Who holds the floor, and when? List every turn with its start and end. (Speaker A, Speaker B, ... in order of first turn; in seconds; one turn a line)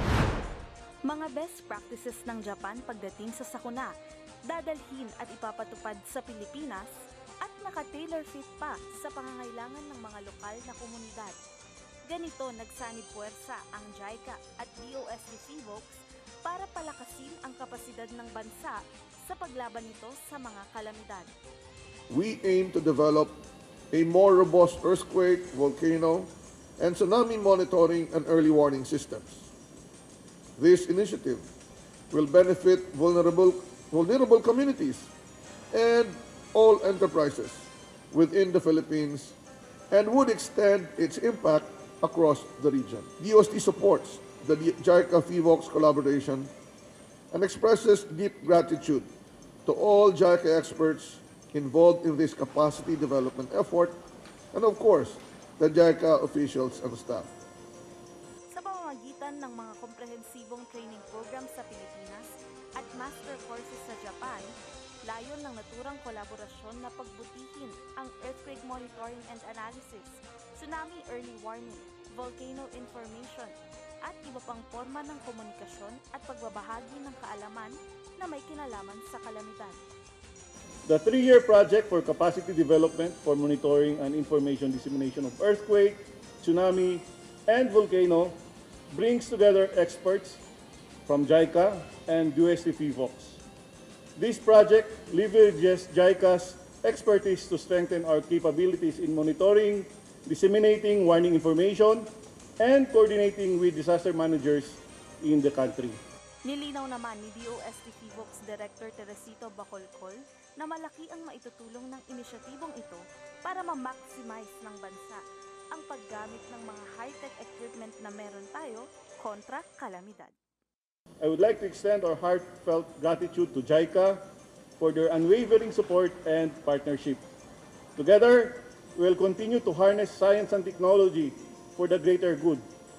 Speaker A: 1.1-3.9
Speaker A: 4.5-6.9
Speaker A: 7.4-11.4
Speaker A: 12.1-21.3
Speaker B: 22.1-23.4
Speaker B: 23.9-29.5
Speaker B: 30.6-31.5
Speaker B: 32.1-35.1
Speaker B: 35.7-39.4
Speaker B: 39.9-46.5
Speaker B: 47.3-49.1
Speaker B: 49.6-54.0
Speaker B: 54.5-57.3
Speaker A: 58.5-64.5
Speaker A: 65.1-79.8
Speaker C: 80.9-88.4
Speaker C: 88.9-90.4
Speaker C: 91.1-93.4
Speaker C: 94.2-102.1
Speaker C: 102.6-106.0
Speaker A: 106.5-115.2
Speaker A: 115.7-120.3
Speaker C: 121.2-124.2
Speaker C: 124.8-127.2
Speaker C: 128.0-132.6